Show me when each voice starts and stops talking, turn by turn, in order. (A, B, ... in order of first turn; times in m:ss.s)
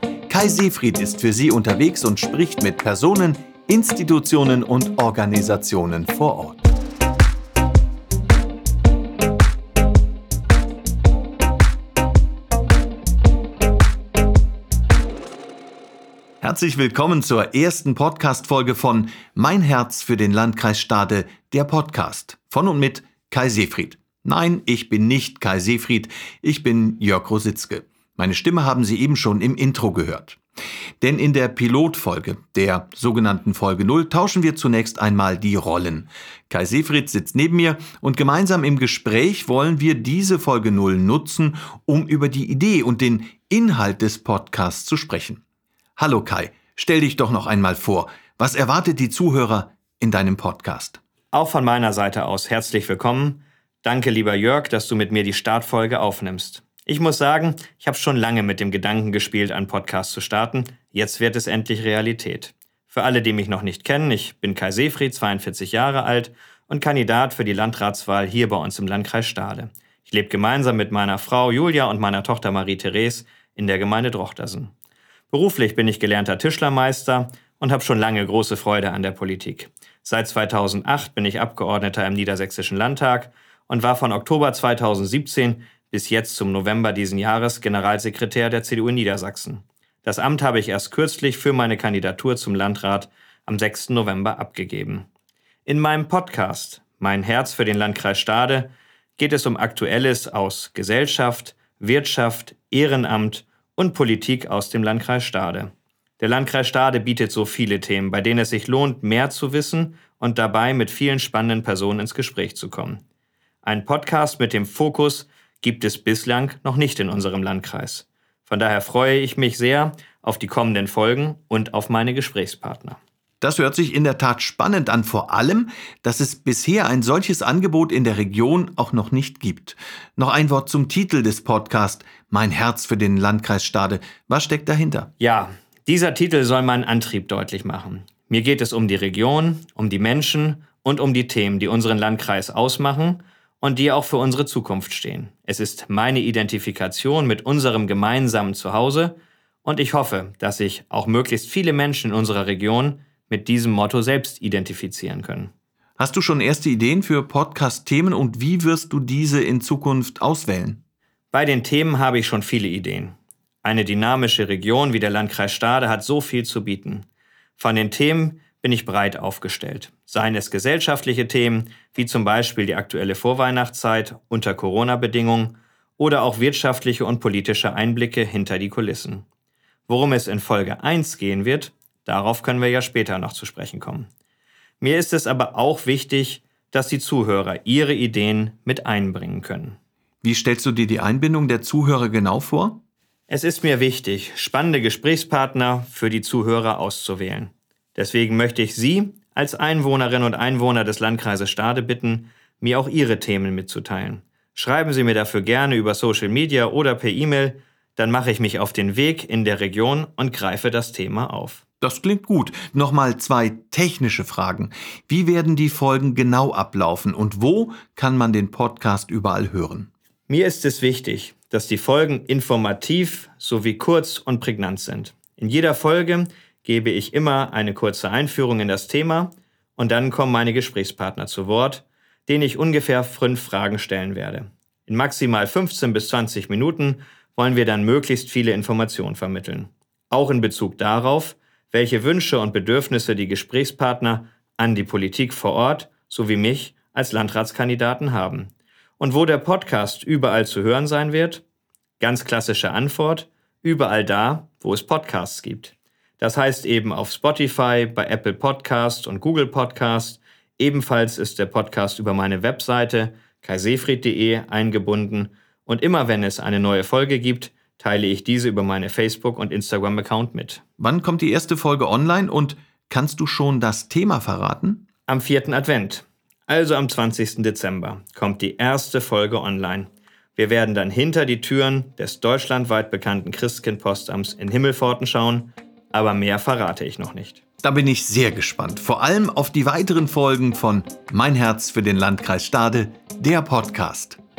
0:00.3-0:06.6 A
0:16.4-0:30.4 A
0:31.0-0:45.4 A
0:46.0-0:51.0 A
0:51.3-1:14.7 B
1:15.3-1:35.1 B
1:35.7-1:53.0 B
1:53.6-2:03.0 B
2:03.4-2:15.1 A
2:15.2-2:35.5 B
2:36.0-2:40.8 A
2:41.3-2:47.1 B
2:47.6-2:59.3 B
2:59.9-3:04.1 B
3:04.8-3:09.8 B
3:10.2-3:12.8 A
3:13.3-3:31.6 B
3:31.8-3:39.9 A
3:40.3-4:11.4 B
4:12.0-4:30.6 B
4:30.8-4:34.8 A
4:35.1-4:47.4 B
4:47.6-4:54.2 A